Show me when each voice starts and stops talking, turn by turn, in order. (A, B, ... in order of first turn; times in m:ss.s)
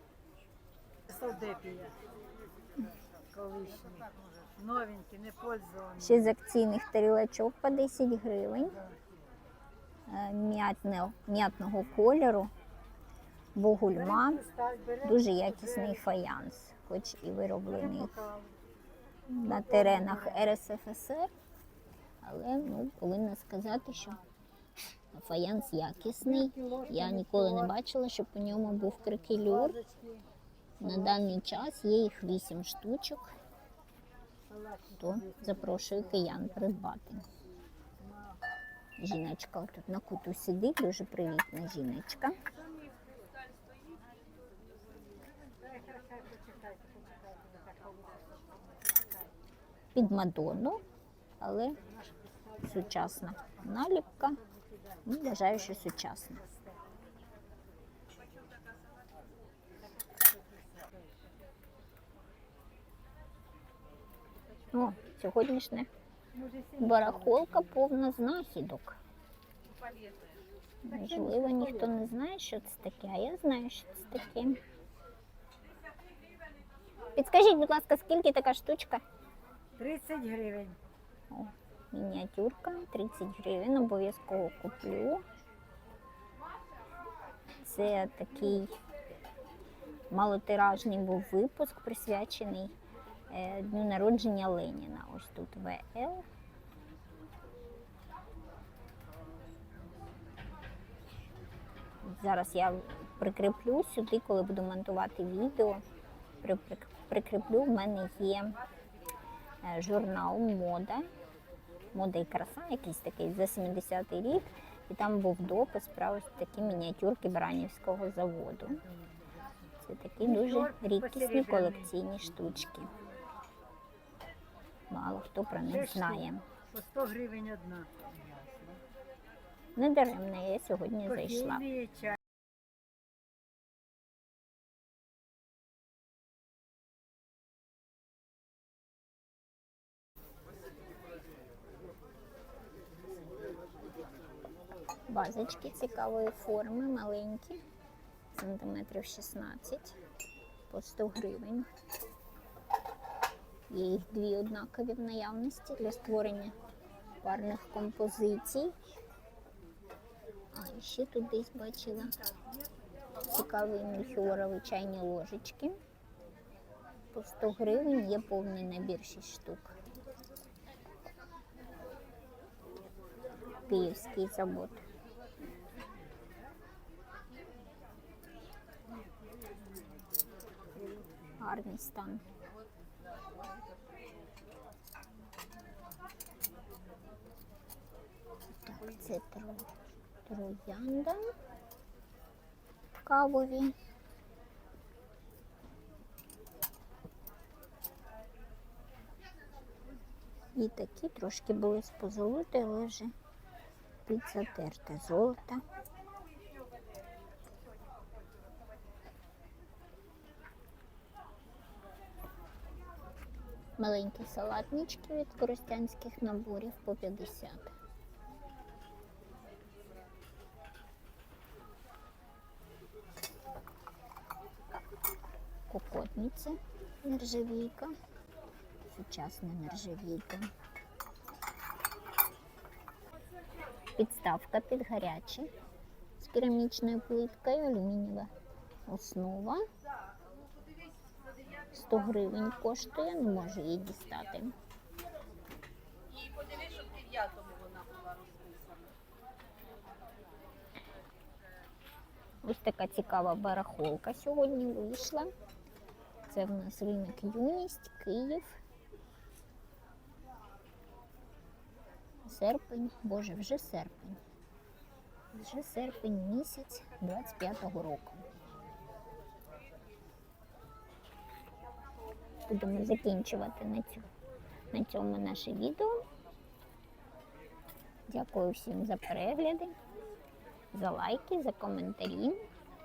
0:01.1-0:02.0 A
0:03.3-0:06.3 A
0:06.0-0:08.8 B
0:10.1-0:12.5 B
0:13.6-0:14.4 B
0:13.9-0:16.0 A
0:15.0-0:18.1 B
0:17.7-0:18.5 A
0:19.3-0:21.3 B
0:19.5-0:20.5 A
0:22.2-0:24.2 B
0:25.1-0:29.8 B
0:26.2-0:27.8 A
0:29.4-0:30.2 A
0:30.8-0:33.3 B
0:34.5-0:36.2 A
0:35.0-0:37.3 B
0:38.0-0:38.4 A
0:39.0-0:42.4 B
0:45.5-0:49.0 A
0:50.0-0:50.8 B
0:51.4-0:51.8 B
0:52.0-0:52.5 A
0:52.6-0:54.4 B
0:55.1-0:56.4 B
1:00.1-1:00.9 A
1:04.7-1:05.9 B
1:06.3-1:07.6 A
1:06.8-1:09.0 B
1:09.8-1:10.3 C
1:10.8-1:14.6 B
1:11.0-1:11.9 A
1:17.2-1:19.0 B
1:19.8-1:20.8 A
1:21.3-1:25.2 B
1:27.6-1:28.8 B
1:30.1-1:32.8 B
1:33.3-1:36.2 B
1:42.0-1:45.8 B
1:46.4-1:48.6 B
1:49.6-1:51.1 B
1:51.9-1:58.8 B
1:59.8-2:02.9 B
2:00.2-2:01.9 A
2:04.9-2:06.4 B
2:05.6-2:08.8 A
2:09.8-2:11.7 B
2:11.1-2:12.2 A
2:25.1-2:27.6 B
2:28.3-2:30.0 B
2:30.7-2:31.7 B
2:33.7-2:36.5 B
2:37.2-2:38.7 B
2:40.5-2:42.2 B
2:43.2-2:45.8 B
2:47.1-2:49.7 B
2:53.7-2:54.8 B
3:01.4-3:02.2 B
3:08.5-3:09.7 B
3:10.2-3:11.3 B
3:13.0-3:13.8 B
3:20.5-3:23.1 B
3:24.1-3:25.6 B
3:33.8-3:37.7 B
3:45.7-3:47.9 B
3:48.8-3:50.5 B
3:54.0-3:55.5 B
3:56.2-3:58.3 B
3:58.9-3:59.6 B
4:01.7-4:04.5 B
4:06.2-4:08.8 C
4:12.4-4:15.3 B
4:16.3-4:18.6 B
4:22.2-4:24.2 B
4:25.3-4:28.2 B
4:32.5-4:34.1 B
4:34.7-4:36.0 B
4:38.1-4:39.8 B
4:40.7-4:42.4 B